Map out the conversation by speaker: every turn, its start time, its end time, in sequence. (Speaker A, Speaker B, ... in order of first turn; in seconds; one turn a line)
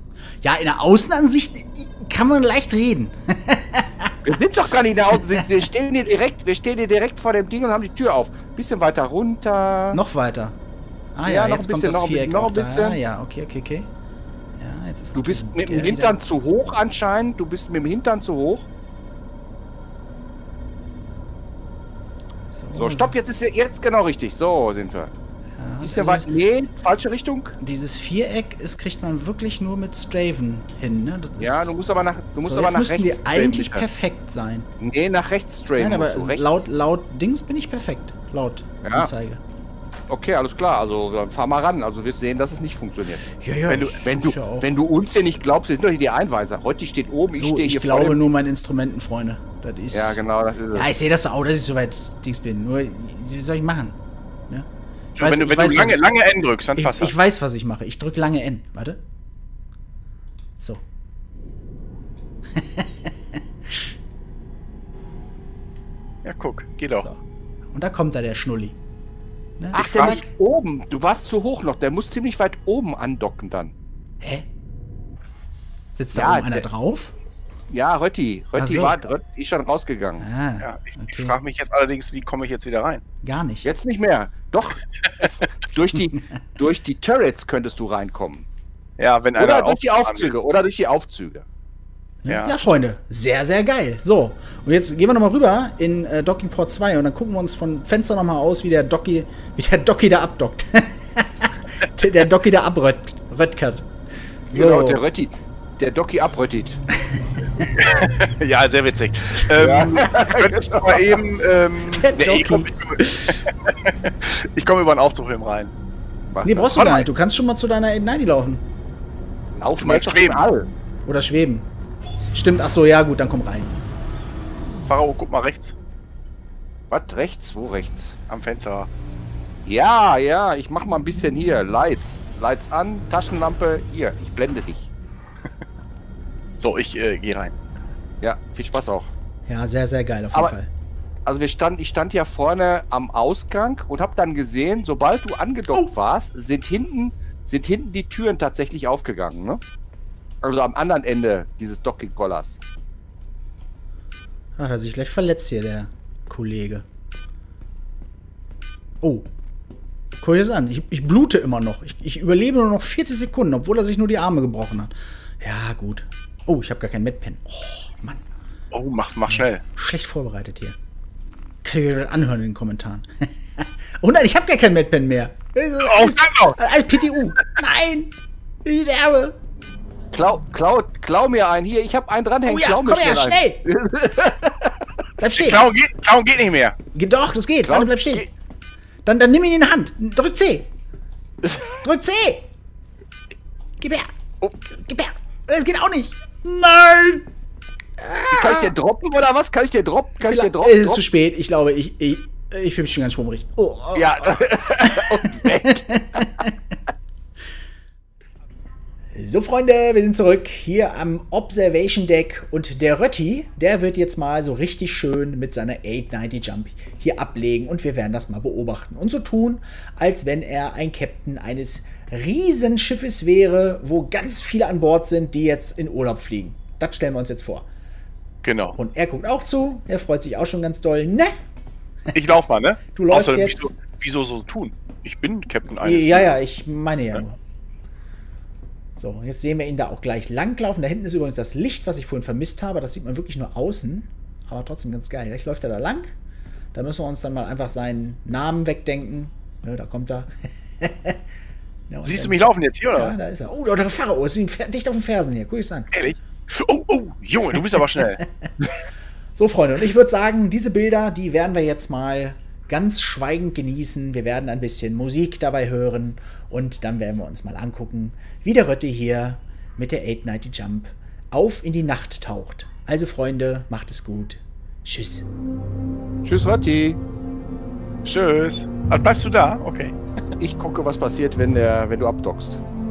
Speaker A: 0.4-4.3
Speaker B: 4.2-10.0
Speaker A: 9.9-10.6
Speaker A: 11.2-13.9
Speaker B: 11.2-13.0
Speaker A: 14.6-16.2
Speaker B: 15.2-18.7
Speaker A: 22.5-23.1
Speaker B: 22.8-25.1
Speaker A: 25.6-26.3
Speaker B: 25.8-27.6
Speaker A: 27.6-31.8
Speaker B: 31.4-33.9
Speaker A: 32.4-34.7
Speaker B: 34.8-36.6
Speaker A: 35.8-39.4
Speaker B: 38.8-39.1
Speaker B: 40.1-43.3
Speaker A: 43.4-44.7
Speaker C: 43.7-44.0
Speaker B: 44.0-48.3
Speaker A: 47.4-50.2
Speaker B: 49.9-50.9
Speaker A: 50.7-54.0
Speaker C: 55.1-57.1
Speaker A: 55.2-56.0
Speaker A: 56.8-59.0
Speaker A: 60.6-60.8
Speaker A: 62.5-63.1
Speaker C: 66.2-67.1
Speaker A: 67.0-67.2
Speaker A: 67.7-68.8
Speaker A: 69.6-70.3
Speaker B: 69.7-73.7
Speaker A: 74.2-74.5
Speaker A: 75.9-77.1
Speaker B: 76.1-76.7
Speaker B: 77.7-80.3
Speaker A: 78.5-79.1
Speaker A: 80.2-81.4
Speaker C: 80.6-83.0
Speaker A: 83.2-83.7
Speaker B: 83.6-88.5
Speaker C: 89.0-90.3
Speaker B: 89.4-91.5
Speaker A: 92.2-103.9
Speaker C: 92.3-92.6
Speaker A: 104.5-105.0
Speaker B: 104.5-106.8
Speaker C: 107.8-115.7
Speaker B: 109.5-111.2
Speaker A: 111.9-113.4
Speaker B: 116.3-116.7
Speaker A: 116.4-118.6
Speaker C: 116.8-117.1
Speaker B: 119.5-120.7
Speaker C: 119.8-120.5
Speaker A: 121.1-121.7
Speaker A: 122.3-123.8
Speaker C: 124.8-125.7
Speaker B: 126.9-128.2
Speaker C: 128.3-128.9
Speaker B: 129.7-134.9
Speaker C: 136.6-137.6
Speaker B: 138.2-139.1
Speaker A: 139.5-140.7
Speaker B: 141.2-149.6
Speaker B: 150.4-152.6
Speaker A: 154.6-156.9
Speaker A: 159.0-159.3
Speaker A: 160.2-168.2
Speaker C: 168.7-169.6
Speaker A: 169.3-170.8
Speaker A: 171.6-179.4
Speaker C: 175.8-176.6
Speaker B: 180.1-184.9
Speaker A: 182.4-183.6
Speaker A: 185.2-185.6
Speaker C: 185.4-186.8
Speaker A: 186.9-188.3
Speaker B: 187.7-188.3
Speaker A: 189.1-190.7
Speaker B: 191.4-191.7
Speaker A: 191.8-192.5
Speaker A: 193.8-197.3
Speaker A: 198.0-198.7
Speaker B: 198.3-201.0
Speaker A: 200.2-206.5
Speaker B: 203.9-206.3
Speaker A: 209.1-227.7
Speaker C: 228.4-228.8
Speaker A: 228.6-231.4
Speaker C: 232.1-236.4
Speaker A: 232.9-233.7
Speaker A: 235.7-237.4
Speaker A: 239.0-246.1
Speaker A: 246.7-251.2
Speaker A: 251.9-255.9
Speaker C: 252.1-253.2
Speaker C: 255.9-258.2
Speaker A: 258.2-258.5
Speaker A: 259.4-275.3
Speaker B: 276.2-277.0
Speaker C: 278.1-280.0
Speaker B: 280.4-282.6